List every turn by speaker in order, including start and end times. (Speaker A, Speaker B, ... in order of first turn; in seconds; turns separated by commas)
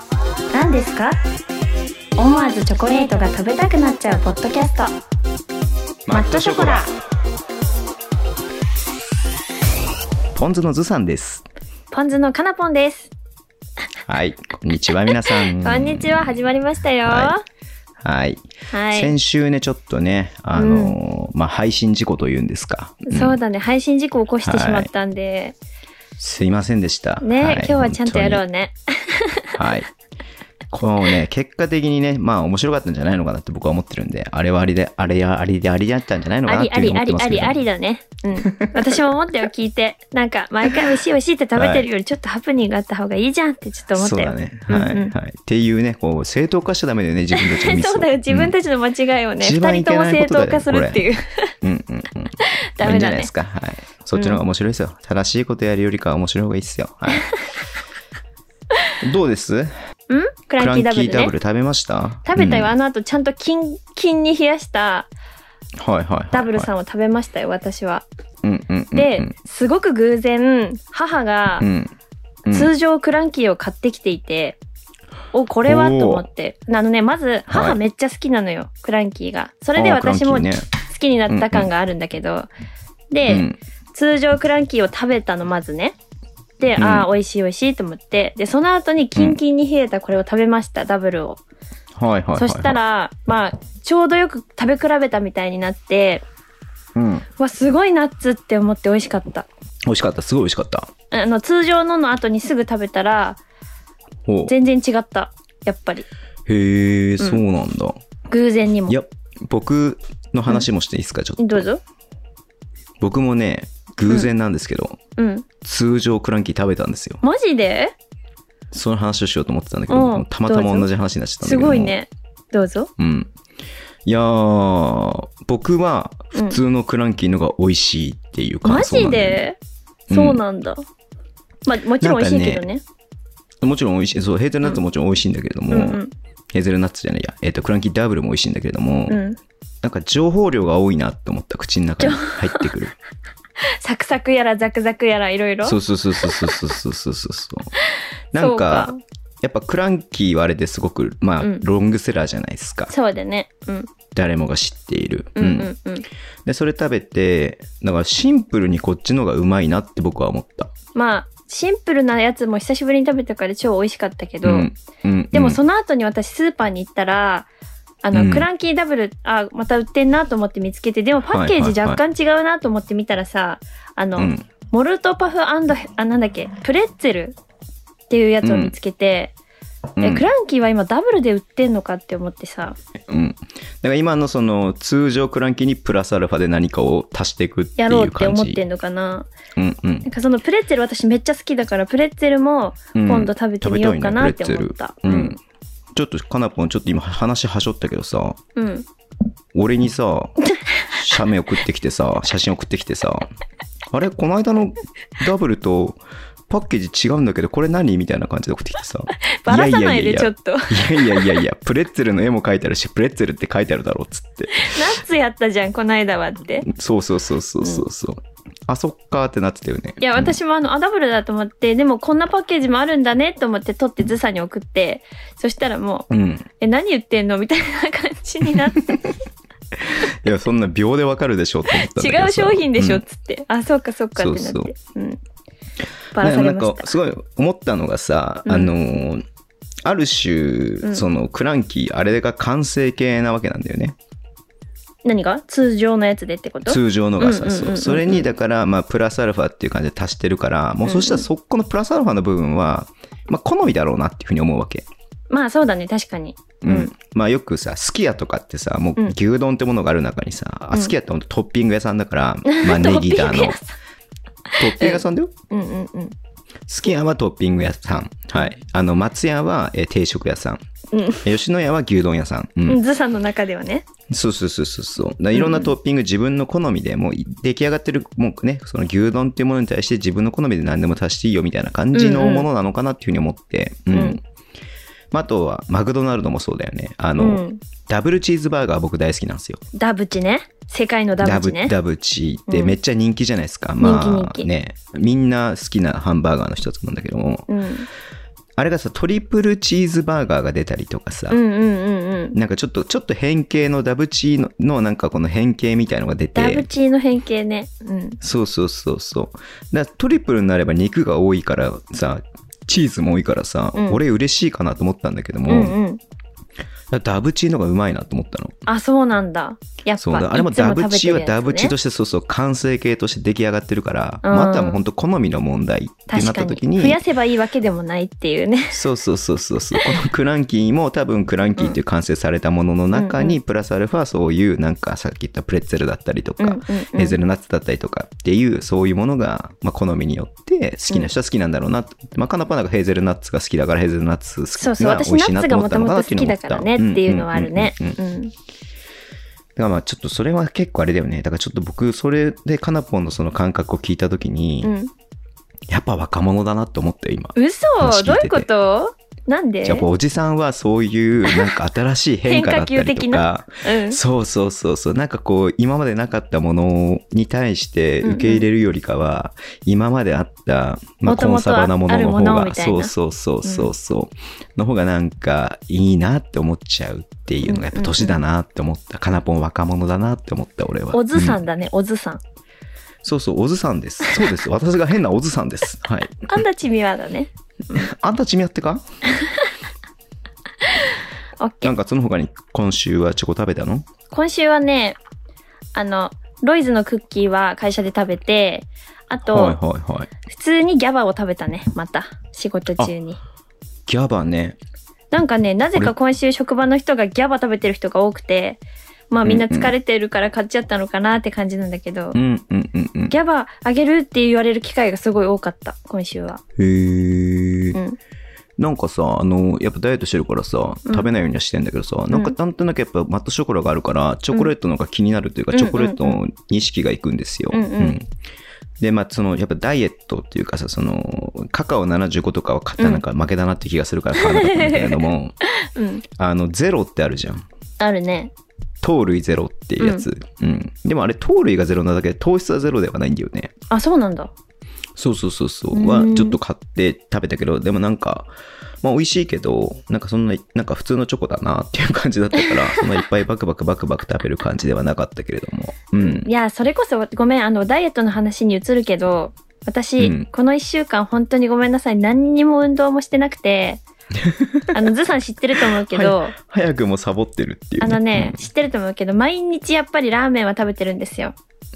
Speaker A: 0.5-1.2, Speaker A: 2.2-5.0, Speaker B: 6.0-6.9, Speaker A: 6.1-6.9, Speaker B: 10.3-11.4, Speaker A: 11.9-13.1, Speaker B: 14.1-16.4, Speaker A: 15.1-17.4, Speaker B: 17.0-17.4, Speaker B: 18.0-23.4, Speaker A: 18.7-19.1, Speaker A: 20.5-20.9, Speaker A: 23.1-25.6, Speaker B: 24.4-24.9, Speaker B: 26.2-28.4, Speaker A: 27.2-29.6, Speaker B: 29.6-29.9, Speaker B: 30.7-37.6, Speaker A: 36.5-45.1, Speaker B: 38.4-38.9, Speaker B: 41.5-41.9, Speaker B: 43.9-48.5, Speaker A: 47.3-51.5, Speaker B: 49.4-51.0, Speaker B: 51.6-57.3, Speaker A: 52.4-53.3, Speaker A: 54.1-54.4, Speaker B: 59.0-59.7, Speaker A: 60.1-61.3, Speaker B: 60.6-62.7, Speaker A: 62.2-65.1, Speaker B: 65.8-66.7, Speaker A: 66.3-68.0, Speaker B: 68.4-69.3, Speaker A: 68.9-71.7, Speaker B: 71.6-71.9, Speaker B: 72.5-72.7, Speaker A: 72.5-74.6, Speaker A: 75.3-82.5, Speaker B: 75.6-76.2, Speaker B: 77.5-77.8, Speaker B: 79.8-80.7, Speaker B: 81.3-81.7, Speaker A: 83.1-86.0, Speaker B: 83.3-83.6, Speaker A: 86.6-91.4, Speaker B: 86.8-87.1, Speaker B: 92.0-92.8, Speaker A: 92.4-96.2, Speaker B: 96.9-97.2, Speaker A: 97.4-99.5, Speaker B: 99.8-100.9, Speaker A: 101.1-103.4, Speaker B: 104.2-104.5, Speaker A: 104.5-106.1, Speaker B: 106.5-108.0, Speaker A: 108.3-109.0, Speaker B: 108.9-111.7, Speaker A: 111.4-111.8, Speaker B: 113.0-115.0, Speaker A: 115.2-115.5, Speaker B: 115.6-117.2, Speaker A: 117.2-117.9, Speaker B: 118.7-121.9, Speaker A: 119.9-120.9, Speaker A: 121.4-122.9, Speaker B: 123.0-123.3, Speaker B: 124.0-129.4, Speaker A: 126.3-126.6, Speaker A: 128.6-129.6, Speaker B: 130.1-130.4, Speaker A: 130.1-130.8, Speaker A: 131.7-132.8, Speaker B: 132.0-132.7, Speaker B: 133.6-136.0, Speaker A: 135.7-136.1, Speaker B: 136.5-139.2, Speaker A: 139.1-139.4, Speaker B: 139.8-142.9, Speaker A: 142.0-142.7, Speaker A: 143.8-146.5, Speaker B: 145.6-147.7, Speaker B: 148.3-152.9, Speaker A: 148.4-149.0, Speaker A: 152.9-153.9, Speaker B: 154.1-155.7, Speaker A: 155.3-156.1, Speaker B: 156.4-160.7, Speaker A: 160.9-164.7, Speaker B: 164.4-165.6, Speaker A: 165.3-167.5, Speaker A: 168.0-177.3, Speaker B: 168.1-168.5, Speaker B: 171.3-172.0, Speaker B: 174.2-174.4, Speaker A: 178.1-179.3, Speaker B: 178.4-178.7, Speaker B: 180.0-180.3, Speaker A: 180.0-182.8, Speaker B: 183.1-188.6, Speaker A: 187.8-189.3, Speaker B: 189.6-190.1, Speaker A: 190.0-195.4, Speaker B: 192.9-195.4, Speaker B: 195.9-198.4, Speaker A: 198.6-198.8, Speaker B: 199.5-200.4, Speaker B: 200.9-203.3, Speaker B: 203.9-214.8, Speaker A: 209.2-211.4, Speaker A: 214.5-216.7, Speaker B: 216.6-220.3, Speaker A: 220.0-226.1, Speaker B: 226.1-226.4, Speaker A: 226.6-229.2, Speaker B: 229.8-233.0, Speaker A: 231.7-235.2, Speaker B: 234.2-234.7, Speaker A: 236.1-236.9, Speaker B: 236.2-239.2, Speaker A: 238.4-238.7, Speaker B: 239.8-243.9, Speaker A: 245.0-248.3, Speaker B: 246.7-254.8, Speaker A: 250.8-251.3, Speaker A: 255.3-256.9, Speaker B: 256.6-263.6, Speaker A: 262.4-263.7, Speaker A: 264.5-266.1, Speaker B: 264.6-265.3, Speaker B: 266.7-270.6, Speaker A: 270.9-271.3, Speaker B: 271.2-272.8, Speaker A: 272.6-273.8, Speaker B: 274.1-284.2, Speaker A: 275.3-275.7, Speaker A: 281.9-282.5, Speaker A: 283.9-284.2, Speaker B: 285.1-289.6, Speaker A: 287.2-287.6, Speaker A: 289.7-291.7, Speaker B: 291.2-297.5, Speaker A: 292.5-292.7, Speaker A: 293.8-294.5, Speaker A: 297.5-297.9, Speaker B: 298.6-301.4, Speaker A: 301.3-302.4, Speaker B: 302.3-306.7, Speaker A: 306.3-308.2, Speaker B: 308.2-315.8, Speaker A: 313.7-314.0, Speaker A: 315.5-316.0, Speaker B: 316.9-318.6, Speaker A: 318.7-321.7, Speaker B: 320.0-327.0, Speaker A: 324.2-324.8, Speaker A: 326.1-328.8, Speaker B: 328.7-348.0, Speaker A: 332.9-333.4, Speaker A: 336.4-337.2, Speaker A: 344.6-348.3, Speaker B: 349.6-354.7, Speaker A: 354.6-354.9, Speaker B: 355.7-358.5, Speaker A: 357.4-359.9, Speaker B: 359.6-381.4, Speaker A: 361.3-361.5, Speaker A: 362.2-364.0, Speaker A: 368.0-368.4, Speaker A: 371.1-372.9, Speaker A: 373.4-373.7, Speaker A: 377.4-378.2, Speaker A: 380.9-382.2, Speaker B: 383.0-386.2, Speaker A: 386.2-387.8, Speaker B: 387.7-388.8, Speaker A: 391.4-391.7, Speaker B: 391.6-393.9, Speaker A: 394.1-395.0, Speaker A: 395.7-399.6, Speaker B: 399.2-400.1, Speaker A: 400.3-403.2, Speaker B: 403.9-404.6, Speaker A: 405.1-412.2, Speaker B: 409.2-409.7, Speaker B: 412.1-413.1, Speaker A: 413.1-416.4, Speaker B: 416.6-417.8, Speaker A: 417.7-418.0, Speaker B: 418.6-428.1, Speaker A: 420.9-421.2, Speaker A: 422.1-422.3, Speaker A: 425.5-426.2, Speaker A: 427.5-428.0, Speaker B: 428.8-435.4, Speaker A: 434.1-436.0, Speaker B: 436.2-437.5, Speaker A: 437.8-438.3, Speaker B: 438.8-443.5, Speaker A: 439.8-440.0, Speaker A: 443.7-444.3, Speaker B: 444.9-448.3, Speaker A: 445.7-446.4, Speaker B: 448.8-456.3, Speaker A: 452.4-453.0, Speaker A: 456.0-463.8, Speaker B: 460.0-460.3, Speaker B: 464.1-464.8, Speaker A: 464.7-466.3, Speaker B: 465.6-468.4, Speaker A: 467.8-471.3